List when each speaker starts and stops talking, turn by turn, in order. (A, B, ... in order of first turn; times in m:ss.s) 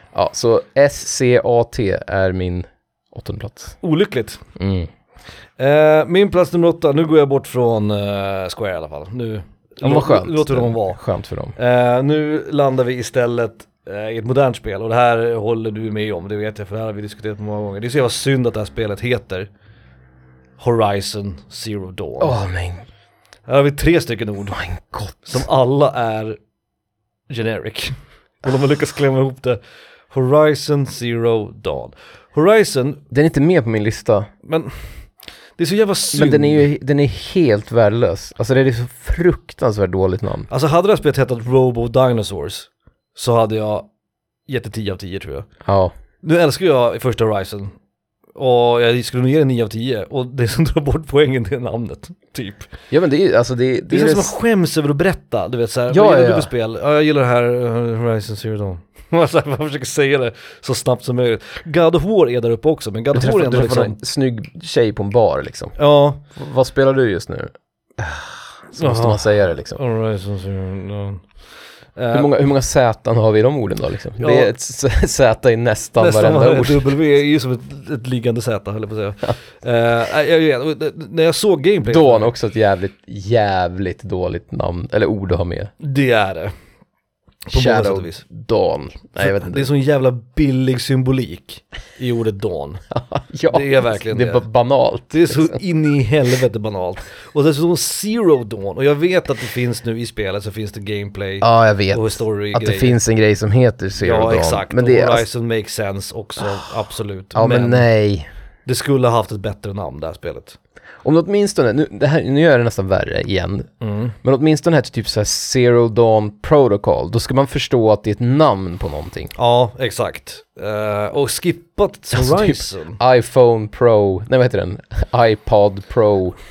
0:00.1-0:03.8 A
0:03.8-0:04.4 B
0:04.6-0:04.9 A
0:05.6-0:11.0 B
0:09.8-0:11.6 A
0:11.6-0:19.5 B
0:20.6-0:22.4 B
0:22.2-0:22.8 A
0:23.5-0:24.6 B
0:24.5-0:25.4 A
0:25.2-0:26.4 B
0:27.3-0:29.6 B
0:30.1-0:33.0 B
0:33.1-0:34.3 A
0:34.4-0:34.9 B
0:35.6-0:36.7 B
0:36.1-0:40.5 A
0:40.5-0:43.9 B
0:44.5-0:45.5 B
0:45.6-0:45.9 A
0:46.2-0:47.7 B
0:48.4-0:52.7 B
0:52.9-0:54.3 A
0:53.9-1:04.0 B
0:55.9-0:56.5 A
1:03.1-1:05.8 A
1:05.8-1:06.2 B
1:06.3-1:09.8 A
1:08.8-1:11.3 B
1:12.0-1:12.3 B
1:12.1-1:16.9 A
1:14.2-1:14.5 B
1:16.0-1:22.3 B
1:21.8-1:25.7 A
1:25.8-1:26.5 B
1:27.5-1:28.2 B
1:27.5-1:29.7 A
1:29.2-1:32.8 B
1:32.9-1:35.6 A
1:33.5-1:34.4 B
1:35.1-1:43.0 B
1:41.4-1:45.2 A
1:44.0-1:47.9 B
1:47.4-1:48.3 A
1:48.7-1:50.6 B
1:51.0-1:59.3 A
1:53.8-1:54.2 B
1:59.4-2:03.0 B
2:02.1-2:06.4 A